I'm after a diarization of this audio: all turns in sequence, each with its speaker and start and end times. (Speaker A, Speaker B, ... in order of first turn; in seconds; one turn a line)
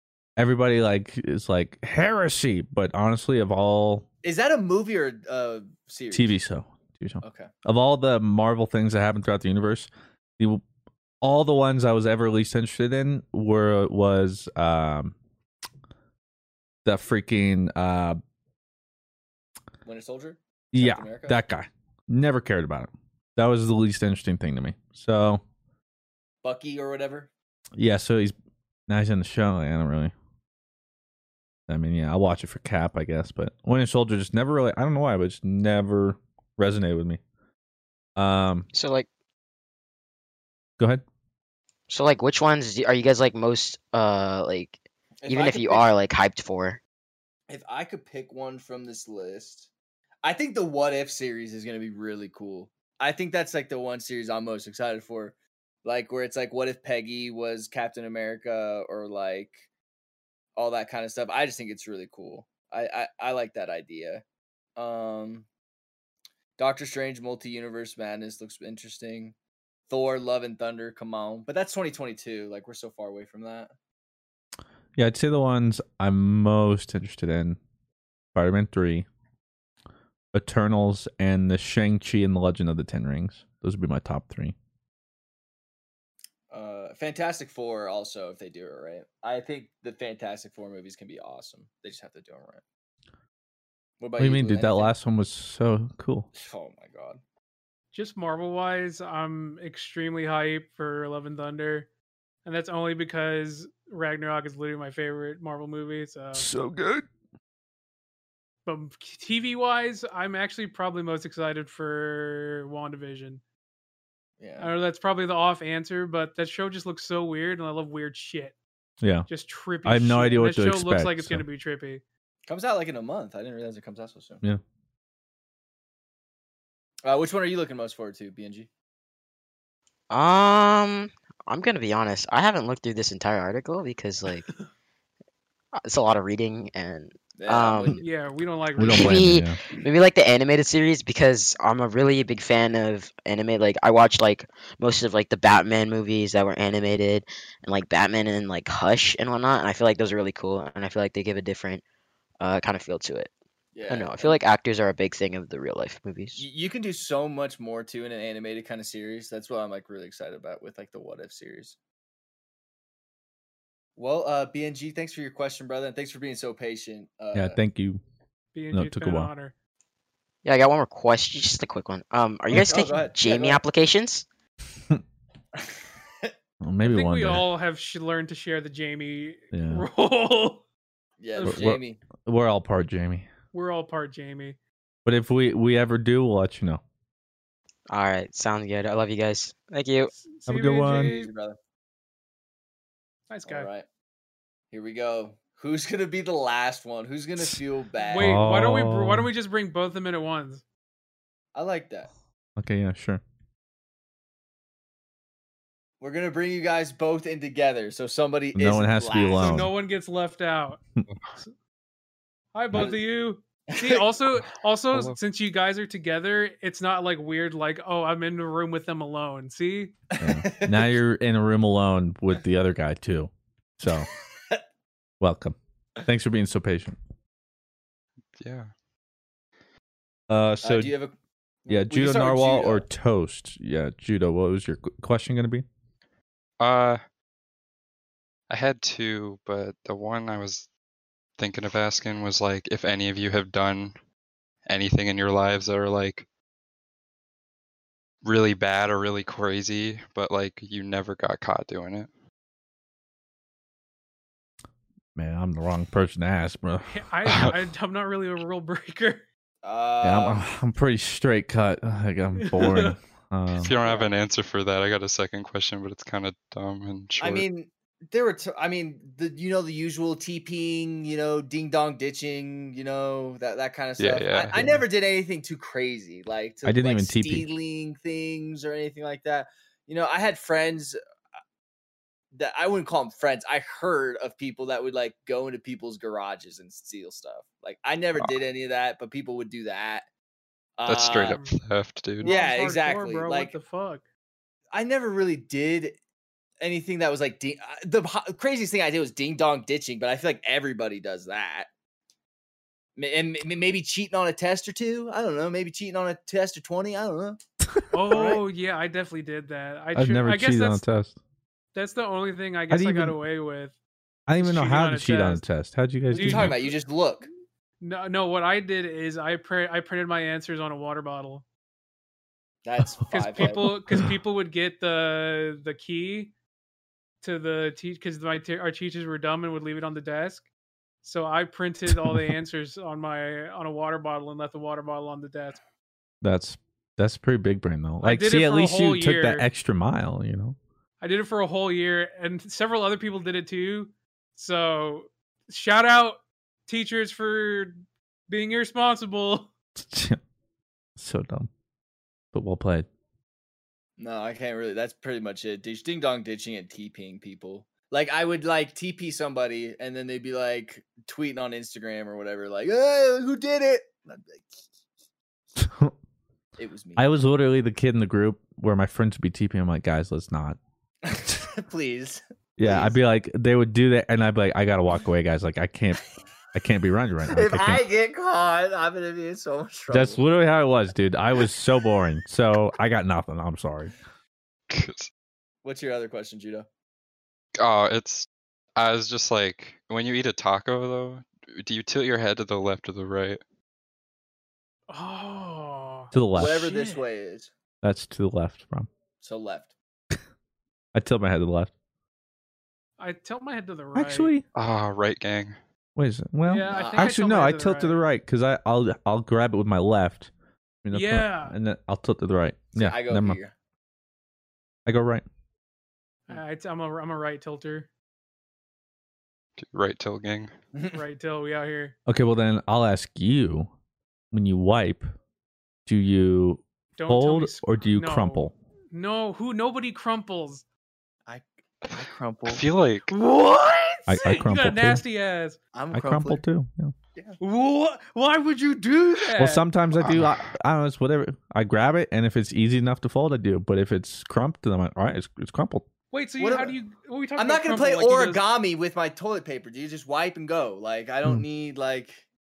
Speaker A: 0.4-4.1
Speaker B: 4.2-6.4
Speaker A: 6.1-10.6
Speaker B: 7.2-7.5
Speaker A: 11.2-15.2
Speaker A: 16.9-18.2
Speaker B: 19.9-21.4
Speaker A: 20.7-25.4
Speaker B: 26.4-27.3
Speaker A: 27.8-28.4
Speaker A: 28.9-30.1
Speaker A: 31.7-37.2
Speaker A: 38.2-38.7
Speaker C: 38.7-39.1
Speaker A: 40.8-41.0
Speaker C: 41.9-46.8
Speaker B: 45.2-45.9
Speaker B: 47.5-49.7
Speaker B: 50.2-59.7
Speaker B: 60.6-64.2
Speaker B: 64.8-65.5
Speaker B: 66.6-69.4
Speaker B: 69.9-73.7
Speaker A: 75.0-77.6
Speaker A: 78.3-79.1
Speaker A: 80.3-84.5
Speaker B: 86.5-92.6
Speaker B: 94.0-94.9
Speaker A: 94.2-96.3
Speaker B: 96.3-97.2
Speaker D: 97.9-101.9
Speaker D: 102.5-106.5
Speaker A: 106.3-107.1
Speaker D: 108.7-113.4
Speaker B: 114.4-114.7
Speaker D: 114.6-118.5
Speaker A: 119.0-119.3
Speaker D: 119.3-122.0
Speaker A: 119.8-121.4
Speaker B: 122.5-124.4
Speaker B: 127.0-128.7
Speaker C: 130.1-134.5
Speaker C: 135.8-138.0
Speaker B: 137.4-138.0
Speaker D: 138.0-139.4
Speaker A: 138.8-139.6
Speaker C: 138.8-151.8
Speaker C: 152.4-153.3
Speaker B: 153.7-154.4
Speaker C: 153.9-156.4
Speaker B: 156.4-161.8
Speaker B: 164.0-167.6
Speaker A: 167.3-168.0
Speaker D: 168.5-169.5
Speaker A: 168.7-169.3
Speaker C: 170.4-174.3
Speaker B: 172.5-173.6
Speaker B: 175.6-176.3
Speaker A: 176.6-177.5
Speaker D: 176.8-180.6
Speaker A: 179.5-179.9
Speaker B: 181.2-182.0
Speaker D: 181.4-181.7
Speaker A: 181.4-183.3
Speaker D: 183.5-184.6
Speaker A: 185.1-186.8
Speaker C: 187.9-190.1
Speaker D: 190.1-191.3
Speaker A: 190.5-191.1
Speaker B: 191.0-191.6
Speaker D: 193.3-193.7
Speaker B: 193.4-193.9
Speaker B: 194.7-198.4
Speaker D: 198.0-200.6
Speaker A: 198.2-199.3
Speaker B: 201.6-202.1
Speaker A: 202.6-203.2
Speaker B: 206.0-209.6
Speaker A: 208.6-209.7
Speaker D: 209.4-210.8
Speaker D: 212.5-220.0
Speaker B: 213.7-214.2
Speaker B: 220.1-220.9
Speaker A: 220.2-224.1
Speaker B: 224.3-224.6
Speaker A: 225.2-227.0
Speaker E: 228.4-228.7
Speaker A: 230.3-230.9
Speaker B: 230.6-232.9
Speaker A: 231.7-235.7
Speaker E: 236.6-237.0
Speaker E: 238.5-240.7
Speaker E: 241.4-244.0
Speaker E: 244.7-246.3
Speaker E: 248.2-252.1
Speaker A: 255.2-257.5
Speaker D: 256.9-259.2
Speaker B: 259.6-260.4
Speaker A: 260.0-263.7
Speaker D: 262.4-263.0
Speaker E: 263.6-267.5
Speaker B: 263.7-264.1
Speaker B: 267.2-281.0
Speaker E: 274.0-274.6
Speaker A: 274.6-274.8
Speaker A: 276.6-277.5
Speaker B: 282.3-290.1
Speaker B: 290.8-291.4
Speaker E: 290.9-292.3
Speaker D: 291.2-291.6
Speaker D: 292.2-294.1
Speaker B: 292.2-293.6
Speaker B: 294.7-296.0
Speaker B: 296.6-301.7
Speaker B: 303.0-307.4
Speaker A: 307.8-308.3
Speaker D: 307.9-310.8
Speaker B: 308.1-308.4
Speaker A: 309.9-311.2
Speaker D: 311.7-313.8
Speaker A: 312.7-313.2
Speaker A: 314.3-316.6
Speaker D: 314.4-315.4
Speaker D: 316.1-316.7
Speaker B: 316.1-317.3
Speaker D: 317.8-321.4
Speaker B: 322.6-323.7
Speaker D: 323.1-326.3
Speaker A: 323.2-324.1
Speaker D: 327.2-330.4
Speaker D: 331.0-335.6
Speaker A: 331.9-332.3
Speaker A: 336.2-340.6
Speaker D: 338.0-339.5
Speaker D: 341.0-349.5
Speaker A: 349.8-350.2
Speaker A: 351.0-351.5
Speaker A: 352.3-352.9
Speaker B: 354.0-364.6
Speaker A: 365.6-365.9
Speaker B: 366.6-367.1
Speaker A: 367.0-370.6
Speaker B: 371.0-373.0
Speaker A: 372.6-377.9
Speaker B: 377.3-380.2
Speaker A: 379.9-383.9
Speaker E: 384.7-385.1
Speaker B: 385.6-386.7
Speaker E: 387.6-393.4
Speaker D: 394.9-397.0
Speaker A: 396.1-396.7
Speaker B: 396.3-397.5
Speaker A: 397.8-398.9
Speaker B: 399.2-399.8
Speaker A: 400.9-401.7
Speaker D: 403.0-404.4
Speaker A: 403.9-404.4
Speaker E: 404.5-405.6
Speaker A: 406.0-410.3
Speaker D: 406.4-408.0
Speaker B: 406.7-407.1
Speaker A: 410.9-413.4
Speaker D: 410.9-411.6
Speaker B: 412.8-413.5
Speaker A: 414.9-415.2
Speaker D: 416.3-417.9
Speaker E: 419.6-420.5
Speaker B: 420.7-421.0
Speaker D: 420.9-421.9
Speaker A: 422.1-423.7
Speaker A: 424.3-425.1
Speaker A: 425.9-428.5
Speaker D: 427.0-430.6
Speaker B: 431.3-432.6
Speaker E: 431.9-433.1
Speaker D: 433.1-435.6
Speaker A: 434.1-435.0
Speaker B: 435.7-436.4
Speaker A: 435.9-436.9
Speaker D: 437.4-439.7
Speaker A: 439.4-445.9
Speaker E: 440.1-440.4
Speaker D: 446.1-448.4
Speaker B: 446.4-446.8
Speaker B: 447.4-452.2